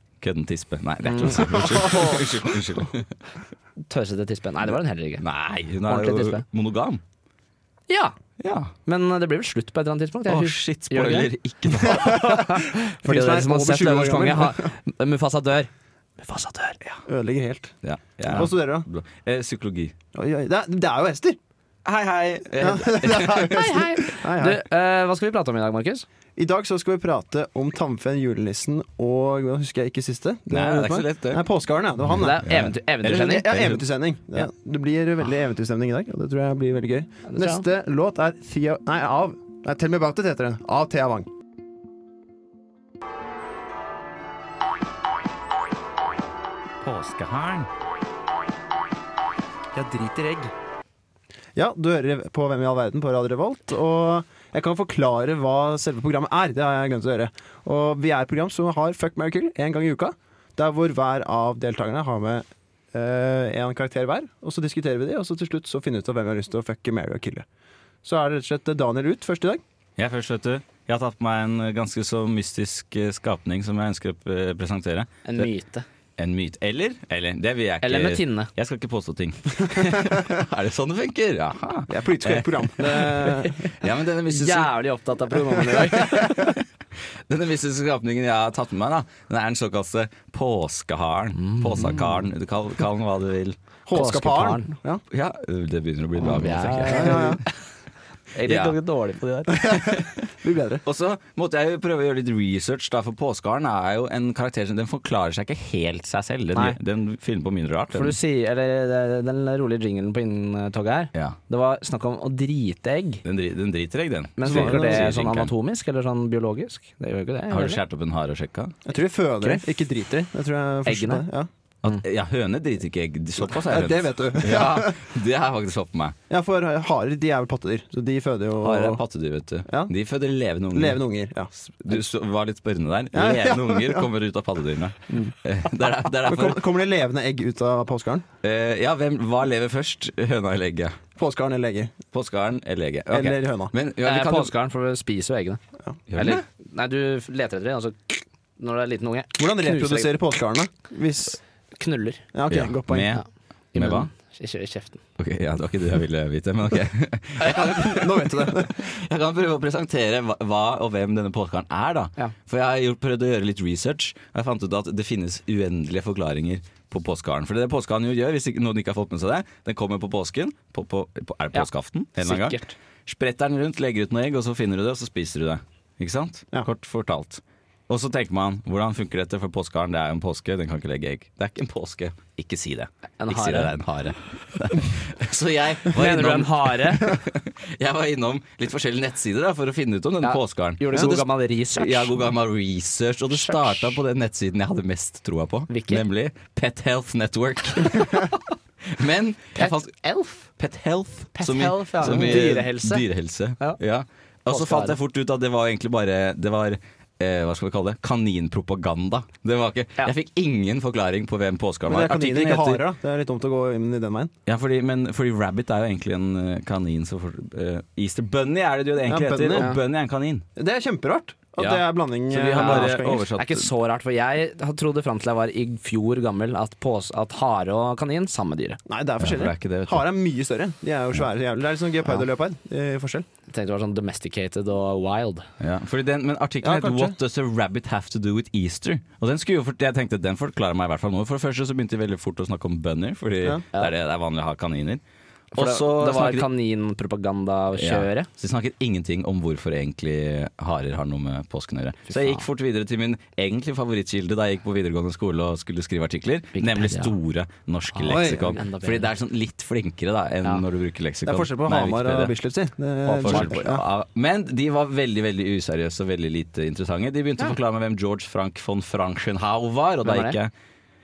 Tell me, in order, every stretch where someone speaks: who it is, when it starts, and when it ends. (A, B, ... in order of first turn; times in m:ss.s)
0:00.2-0:03.1 A
0:01.0-0:02.2 B
0:03.9-0:05.2 B
0:05.2-0:07.0 A
0:05.9-0:06.4 B
0:07.9-0:08.2 B
0:08.4-0:08.7 A
0:08.9-0:15.7 B
0:10.3-0:12.2 A
0:13.0-0:14.7 C
0:16.2-0:16.8 B
0:17.1-0:17.7 C
0:17.8-0:19.9 A
0:18.3-0:18.9 C
0:20.1-0:21.4 C
0:21.8-0:23.8 A
0:22.6-0:24.6 C
0:23.4-0:26.1 B
0:26.4-0:32.4 C
0:30.5-0:31.4 A
0:32.1-0:33.5 B
0:32.2-0:33.8 A
0:33.0-0:41.3 C
0:37.3-0:37.6 B
0:46.8-0:47.7 A
0:51.6-1:07.5 C
1:08.0-1:09.6 C
1:10.0-1:15.5 A
1:15.2-1:15.8 B
1:16.2-1:23.1 A
1:17.8-1:18.5 B
1:21.9-1:23.6 C
1:22.8-1:23.7 B
1:23.8-1:24.7 A
1:24.3-1:26.5 B
1:26.3-1:26.5 A
1:27.3-1:33.6 A
1:31.4-1:32.0 B
1:33.9-1:35.0 C
1:33.9-1:34.7 B
1:35.1-1:37.4 A
1:36.2-1:37.4 B
1:36.9-1:37.4 C
1:38.4-1:39.7 B
1:38.4-1:38.8 A
1:39.6-1:40.2 A
1:39.7-1:40.8 C
1:40.8-1:48.2 A
1:47.9-1:53.2 B
1:53.2-1:55.5 A
1:54.4-1:57.8 B
1:54.5-1:55.1 C
1:57.5-1:58.8 A
1:58.9-2:01.5 C
1:59.4-2:00.3 B
2:00.8-2:01.3 B
2:01.8-2:06.2 A
2:03.4-2:05.0 C
2:06.3-2:09.0 C
2:08.6-2:11.0 A
2:10.7-2:11.5 C
2:11.5-2:16.6 A
2:13.1-2:14.1 C
2:16.2-2:18.2 C
2:18.4-2:21.0 A
2:21.2-2:21.9 C
2:22.1-2:24.5 A
2:23.1-2:23.7 C
2:24.0-2:25.6 B
2:26.1-2:26.4 A
2:26.2-2:30.1 B
2:29.4-2:31.4 C
2:31.8-2:32.2 B
2:32.3-2:33.2 C
2:32.5-2:33.2 A
2:33.7-2:35.0 B
2:33.8-2:34.1 A
2:35.2-3:32.8 A
2:37.5-2:38.9 C
2:52.2-2:52.7 B
3:03.2-3:03.7 B
3:05.9-3:07.1 B
3:10.2-3:12.3 B
3:13.4-3:13.9 B
3:15.7-3:16.0 B
3:19.6-3:20.4 B
3:21.4-3:23.0 B
3:22.0-3:22.4 C
3:24.5-3:25.0 B
3:31.9-3:34.3 C
3:34.5-3:40.4 A
3:39.0-3:39.7 C
3:40.6-3:43.3 C
3:42.3-3:43.7 A
3:42.5-3:48.8 B
3:48.9-3:53.3 C
3:49.2-3:50.0 A
3:53.5-3:55.4 B
3:55.6-4:05.0 A
3:56.6-3:57.2 C
4:05.5-4:06.5 A
4:05.6-4:08.3 B
4:07.8-4:22.3 A
4:12.1-4:12.4 B
4:16.6-4:17.1 B
4:17.9-4:19.1 B
4:18.1-4:18.6 C
4:21.2-4:23.8 C
4:23.1-4:30.5 A
4:23.3-4:23.6 B
4:30.0-4:30.4 B